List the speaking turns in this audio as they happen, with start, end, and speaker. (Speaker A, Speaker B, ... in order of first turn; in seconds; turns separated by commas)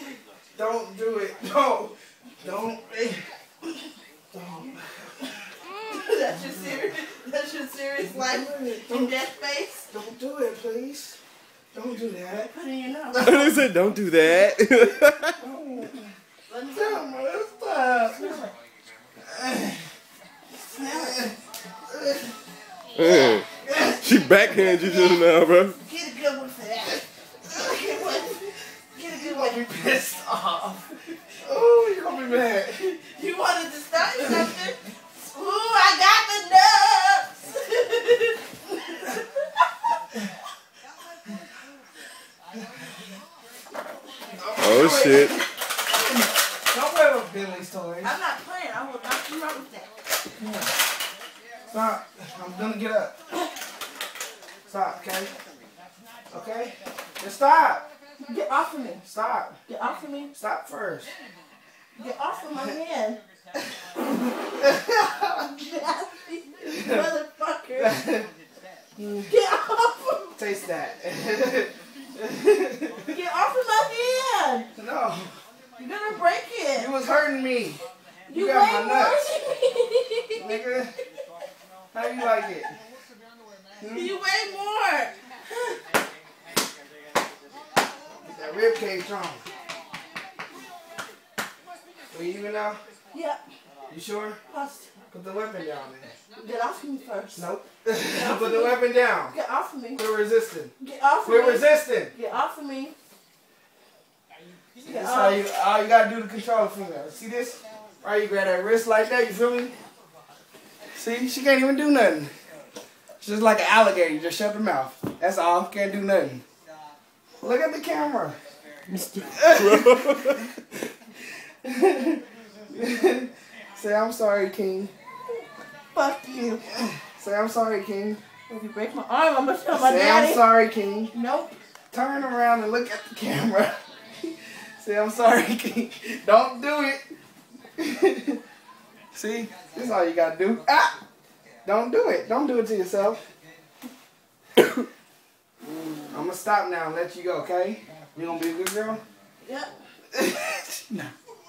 Speaker A: 0.6-3.2, Speaker A: 4.3-5.1, Speaker B: 5.9-9.9, Speaker A: 8.0-9.1, Speaker A: 9.9-11.2, Speaker A: 11.7-12.5, Speaker B: 12.3-13.6, Speaker A: 13.1-13.5, Speaker C: 13.2-15.4, Speaker A: 15.4-16.1, Speaker B: 16.5-17.0, Speaker A: 16.7-18.4, Speaker B: 18.1-18.5, Speaker A: 19.3-19.8, Speaker B: 20.6-21.3, Speaker A: 20.7-21.3, Speaker C: 22.9-23.4, Speaker B: 23.0-29.6, Speaker C: 24.0-25.8, Speaker A: 29.1-30.8, Speaker A: 31.4-33.0, Speaker B: 33.1-39.5, Speaker A: 44.4-45.4, Speaker C: 44.6-45.4, Speaker B: 44.8-45.3, Speaker A: 46.7-48.1, Speaker B: 48.0-49.9, Speaker A: 51.7-53.1, Speaker A: 54.7-55.3, Speaker A: 56.3-57.8, Speaker B: 58.2-59.0, Speaker A: 59.0-59.6, Speaker B: 59.7-60.3, Speaker A: 60.3-61.1, Speaker B: 62.0-63.2, Speaker A: 64.6-65.3, Speaker B: 65.3-68.0, Speaker A: 66.7-67.1, Speaker A: 67.8-68.3, Speaker A: 69.0-69.3, Speaker B: 69.3-70.3, Speaker A: 70.3-73.2, Speaker B: 73.1-74.7, Speaker A: 74.7-75.3, Speaker B: 75.8-76.9, Speaker A: 76.7-79.2, Speaker B: 78.3-80.6, Speaker A: 80.3-80.9, Speaker A: 81.9-82.7, Speaker A: 83.8-84.1, Speaker B: 83.9-85.8, Speaker A: 88.2-89.4, Speaker A: 92.1-92.8, Speaker B: 93.1-93.4, Speaker A: 93.9-94.4, Speaker B: 94.5-94.9, Speaker A: 95.1-96.1, Speaker B: 96.4-97.4, Speaker A: 97.3-99.3, Speaker B: 98.0-100.0, Speaker A: 99.9-100.7, Speaker B: 100.8-102.9, Speaker A: 101.2-102.1, Speaker B: 104.8-105.4, Speaker A: 104.8-109.7, Speaker A: 111.0-112.3, Speaker A: 113.2-116.4, Speaker A: 117.4-118.4, Speaker C: 118.9-120.4, Speaker A: 119.3-120.1, Speaker A: 121.6-124.9, Speaker B: 125.9-126.7, Speaker A: 126.8-128.2, Speaker B: 128.5-130.4, Speaker A: 129.7-131.1, Speaker B: 131.1-131.6, Speaker A: 131.9-137.0, Speaker A: 137.8-138.4, Speaker A: 139.1-140.9, Speaker A: 141.6-143.2, Speaker A: 146.1-149.0, Speaker B: 149.4-149.7, Speaker A: 150.1-151.1